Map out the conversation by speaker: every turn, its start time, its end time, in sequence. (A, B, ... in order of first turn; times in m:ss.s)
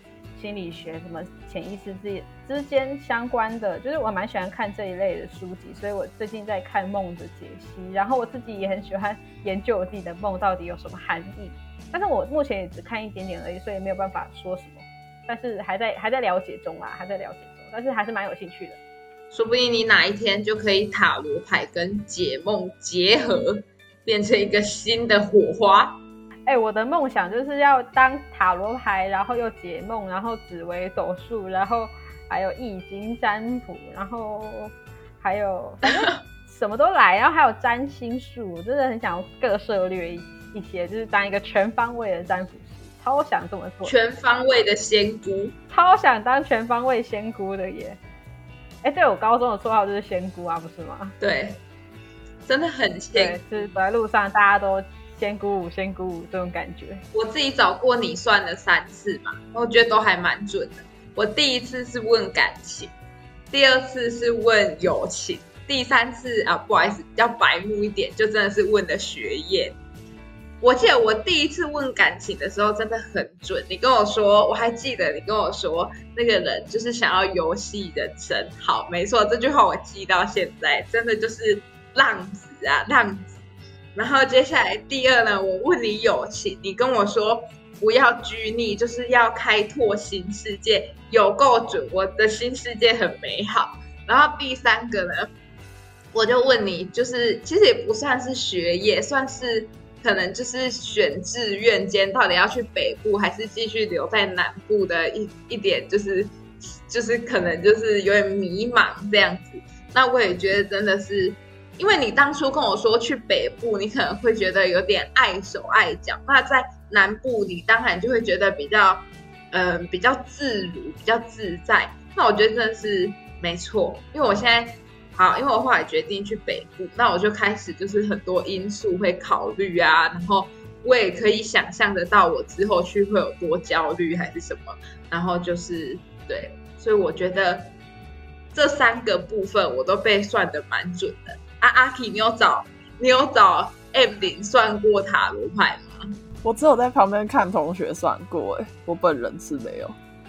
0:00.4-0:18.8 A
0:19.3-0:26.0 B
0:26.5-0:43.9 A
0:35.9-0:36.1 B
0:43.8-0:45.5 B
0:45.7-0:48.0 A
0:48.8-0:51.1 A
0:51.2-0:51.6 B
0:52.4-0:53.6 B
0:53.1-0:57.0 A
0:57.1-1:02.9 B
1:03.5-1:09.7 B
1:10.6-1:23.4 B
1:23.9-1:35.3 B
1:36.1-1:46.3 B
1:46.9-2:17.7 B
2:18.5-2:26.1 B
2:26.4-2:30.0 C